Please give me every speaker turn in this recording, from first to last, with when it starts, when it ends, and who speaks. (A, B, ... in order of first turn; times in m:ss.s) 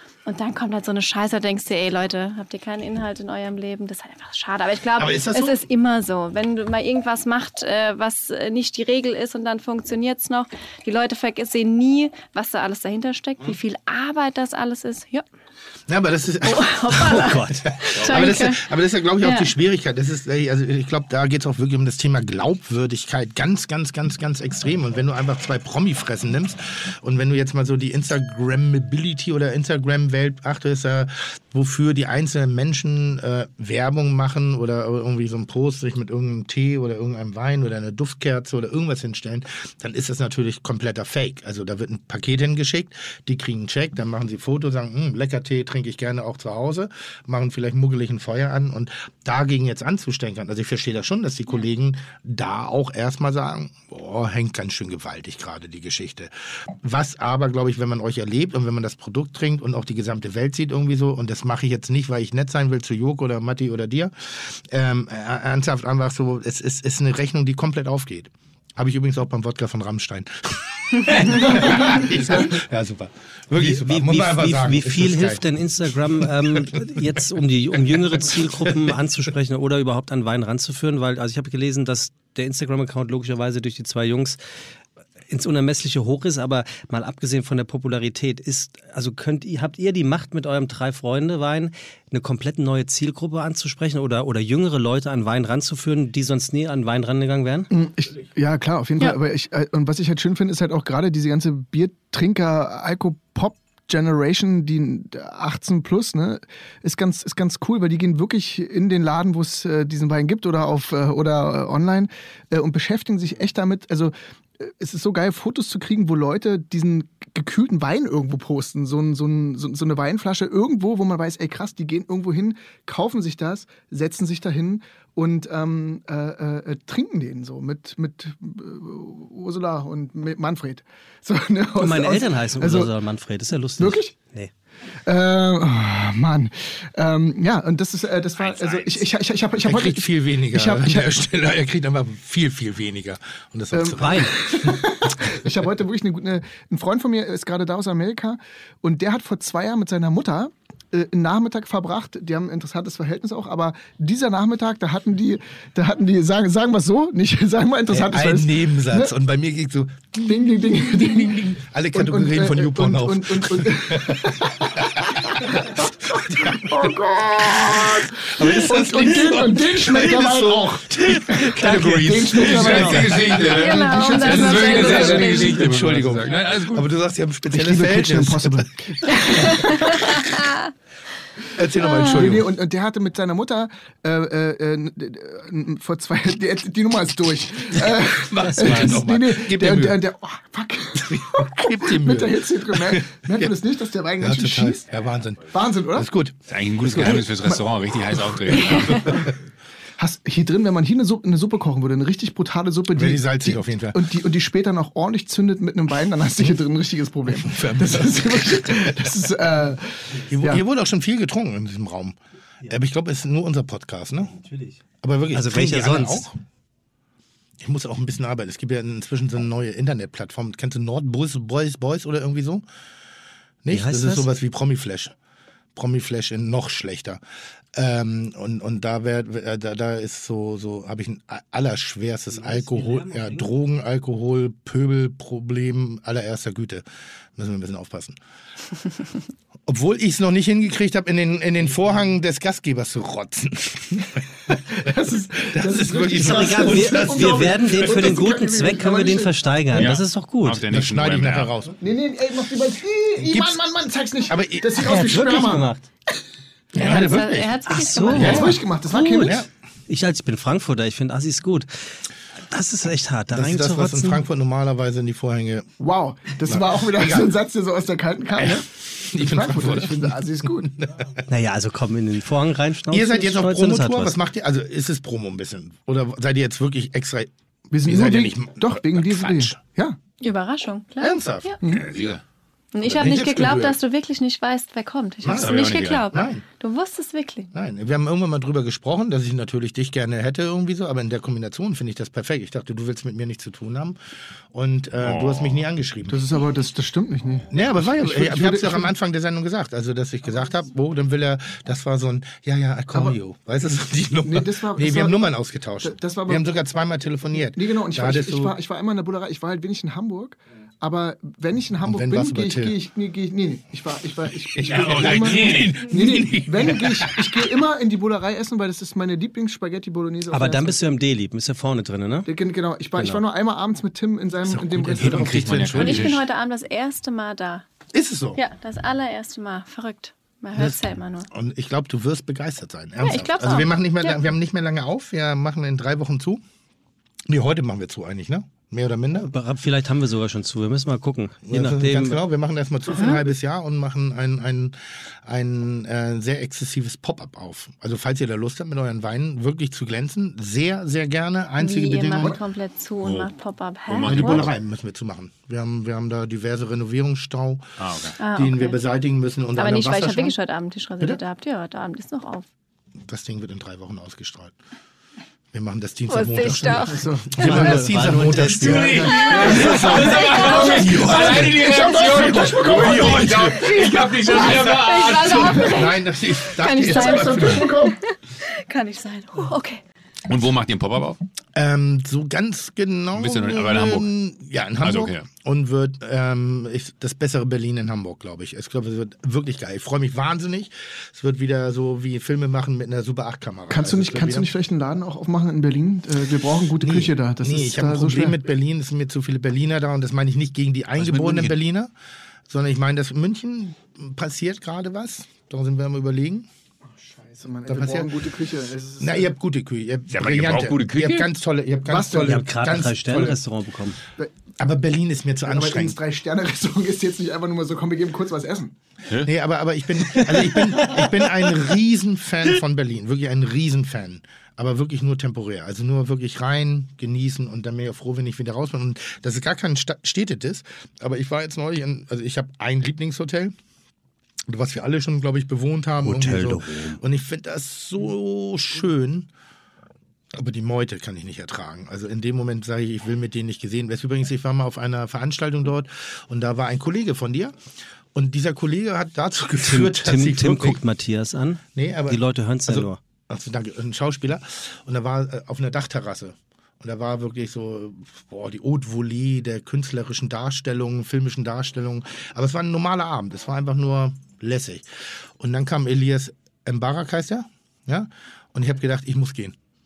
0:00.3-0:15.2 A
0:05.0-0:05.6 B
0:15.9-1:15.4 B
0:16.4-0:19.5 A
0:17.0-0:17.7 C
1:13.6-1:24.4 C
1:25.3-1:37.7 C
1:37.7-2:12.9 D
2:11.8-2:14.5 C
2:13.8-2:14.2 D
2:15.1-2:21.2 D
2:18.4-2:19.1 E
2:19.6-2:24.8 B
2:23.7-2:39.1 D
2:24.0-2:24.3 C
2:37.9-2:40.3 B
2:40.1-2:55.6 D
2:40.8-3:00.3 B
2:51.5-2:56.9 E
2:53.5-2:55.6 A
2:57.5-2:59.9 D
2:59.1-3:00.2 A
3:01.6-3:02.5 B
3:01.8-3:02.3 A
3:01.9-3:14.8 D
3:08.0-3:10.0 B
3:11.0-3:13.6 B
3:14.2-3:17.3 B
3:15.5-3:16.1 D
3:16.5-3:19.2 E
3:17.0-3:17.6 D
3:18.6-3:19.2 B
3:20.0-3:30.6 D
3:23.0-3:24.0 B
3:27.3-3:29.1 B
3:30.3-3:32.2 B
3:32.7-3:34.4 B
3:35.0-3:36.3 B
3:35.3-3:36.3 C
3:37.6-3:42.6 B
3:43.6-3:45.1 B
3:43.7-3:44.3 C
3:45.8-3:47.2 B
3:47.8-3:56.8 B
3:52.4-3:53.5 C
3:57.4-3:58.2 B
3:59.7-4:04.6 B
4:04.5-4:09.4 D
4:05.5-4:08.2 B
4:06.2-4:10.6 C
4:09.7-4:11.5 E
4:10.7-4:11.8 B
4:11.8-4:15.7 D
4:13.2-4:13.6 B
4:14.3-4:15.2 B
4:14.8-4:15.9 C
4:16.7-4:18.6 B
4:16.8-4:18.4 A
4:17.7-4:19.4 C
4:18.1-4:19.5 D
4:19.2-4:19.5 B
4:19.9-4:21.7 C
4:22.5-4:24.2 C
4:23.3-4:25.7 B
4:25.8-4:30.7 D
4:26.4-4:27.3 B
4:28.4-4:31.1 B
4:31.3-4:34.2 C
4:32.9-4:37.3 B
4:37.7-4:40.0 D
4:37.8-4:39.6 B
4:40.2-4:41.6 A
4:41.0-4:41.5 B
4:41.6-4:41.9 D
4:41.6-4:42.2 E
4:42.7-4:47.5 A
4:42.8-4:43.8 B
4:45.2-4:46.4 B
4:45.4-4:46.1 E
4:47.5-4:54.0 B
4:54.5-4:56.3 B
4:55.0-4:55.7 E
4:56.1-4:58.9 D
4:57.5-5:08.6 B
5:04.2-5:05.2 D
5:05.8-5:06.5 D
5:07.4-5:20.9 D
5:11.8-5:12.8 B
5:14.6-5:17.1 B
5:14.6-5:16.7 E
5:20.3-5:22.3 C
5:22.3-5:25.5 D
5:23.0-5:23.2 C
5:24.4-5:26.2 B
5:24.9-5:26.2 E
5:25.7-5:27.6 A
5:27.9-5:28.4 B
5:28.4-5:31.3 A
5:30.6-5:36.4 B
5:33.0-5:34.2 A
5:37.3-5:39.3 B
5:39.2-5:42.2 C
5:41.5-5:44.8 B
5:42.9-5:43.2 A
5:45.3-5:52.4 B
5:51.6-5:54.5 A
5:53.0-5:53.3 E
5:53.9-5:54.5 E
5:54.0-5:57.7 B
5:57.8-5:58.2 E
5:58.2-5:58.8 A
5:58.3-6:00.4 B
5:59.6-6:02.5 A
6:03.1-6:04.5 B
6:05.5-6:17.7 B
6:06.1-6:07.5 A
6:06.8-6:07.9 D
6:07.4-6:09.3 C
6:08.6-6:13.6 D
6:08.6-6:15.6 E
6:09.2-6:11.0 A
6:13.6-6:19.8 A
6:15.4-6:15.7 D
6:16.7-6:18.0 D
6:20.3-6:21.2 E
6:21.6-6:34.5 B
6:23.2-6:24.1 E
6:24.8-6:25.3 E
6:33.7-6:38.4 D
6:36.8-6:41.9 B
6:41.0-6:41.6 E
6:42.5-6:46.5 B
6:47.0-6:49.3 D
6:47.7-6:48.1 B
6:49.0-6:53.4 B
6:50.1-6:51.3 E
6:51.9-6:52.4 D
6:52.1-6:54.0 C
6:54.6-6:56.0 B
6:55.4-6:58.8 D
6:59.2-7:13.5 B
7:00.5-7:00.9 C
7:14.5-7:19.3 B
7:16.0-7:17.0 C
7:20.3-7:27.5 B
7:28.2-7:30.8 B
7:29.6-7:33.0 C
7:31.8-7:44.8 B
7:45.4-7:49.6 B